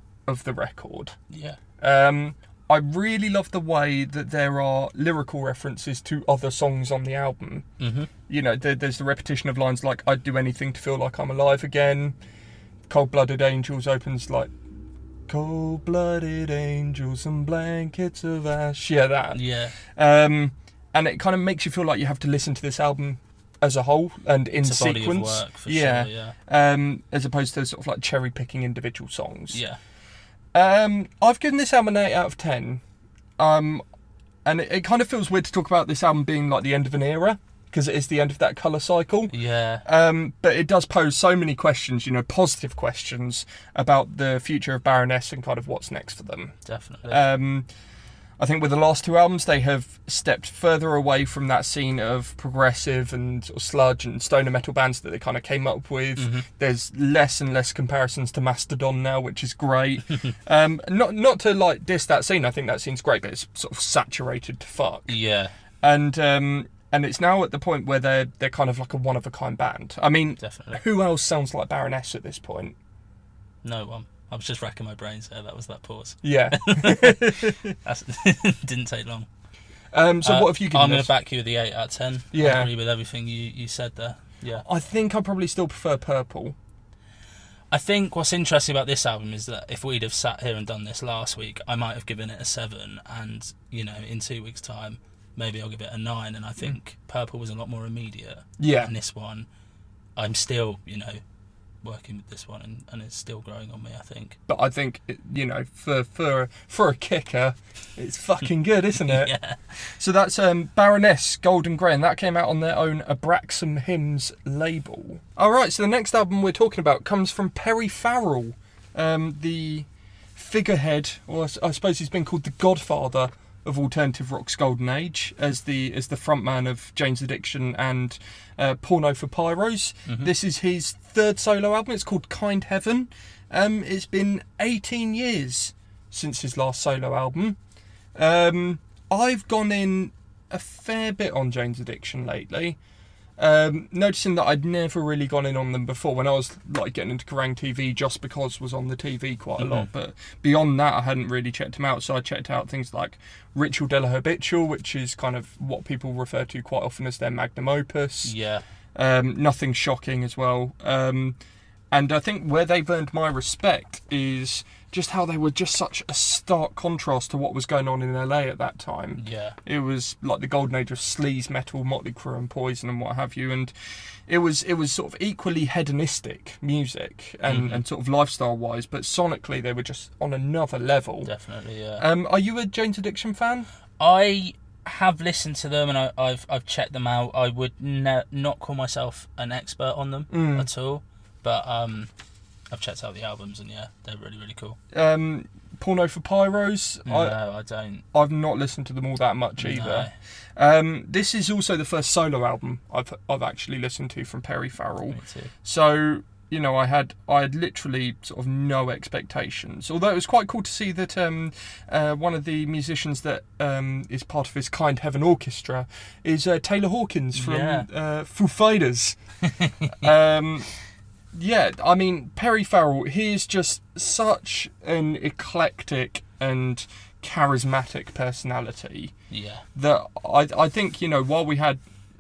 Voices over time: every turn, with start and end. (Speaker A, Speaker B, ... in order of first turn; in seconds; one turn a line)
Speaker A: 0.3-1.2
Speaker B: 1.3-1.6
Speaker A: 1.8-7.7
Speaker B: 7.8-8.1
Speaker A: 8.3-12.2
Speaker A: 12.9-14.5
Speaker A: 15.3-29.6
Speaker B: 19.3-19.8
Speaker B: 24.6-26.4
Speaker B: 29.5-29.8
Speaker A: 30.5-32.8
Speaker A: 33.4-33.8
Speaker A: 34.5-39.3
Speaker B: 39.3-39.8
Speaker A: 39.9-46.5
Speaker B: 46.6-47.2
Speaker A: 47.1-47.7
Speaker A: 48.4-65.1
Speaker B: 56.2-56.5
Speaker B: 65.1-65.5
Speaker A: 65.8-72.8
Speaker B: 70.4-70.8
Speaker B: 73.6-79.3
Speaker A: 76.2-77.7
Speaker A: 79.9-81.1
Speaker B: 80.2-84.7
Speaker A: 82.3-82.7
Speaker A: 84.6-86.6
Speaker B: 87.7-99.5
Speaker A: 98.6-98.9
Speaker B: 100.2-101.2
Speaker B: 101.8-104.4
Speaker A: 104.5-109.3
Speaker B: 109.0-109.6
Speaker A: 110.0-137.6
Speaker B: 130.1-130.3
Speaker A: 138.2-142.8
Speaker A: 143.4-158.3
Speaker B: 149.6-149.9
Speaker B: 158.2-158.6
Speaker A: 158.9-161.4
Speaker A: 161.9-173.7
Speaker B: 169.2-169.6
Speaker A: 174.3-181.3
Speaker B: 177.5-177.8
Speaker B: 181.2-182.1
Speaker A: 182.0-183.7
Speaker B: 184.0-192.1
Speaker A: 190.3-190.7
Speaker B: 192.7-194.8
Speaker A: 194.9-197.4
Speaker B: 197.1-198.0
Speaker A: 198.1-219.2
Speaker B: 199.6-200.2
Speaker B: 205.1-205.5
Speaker B: 217.3-217.9
Speaker B: 219.4-220.1
Speaker A: 220.0-220.7
Speaker A: 221.3-229.1
Speaker B: 229.3-229.7
Speaker A: 229.8-231.8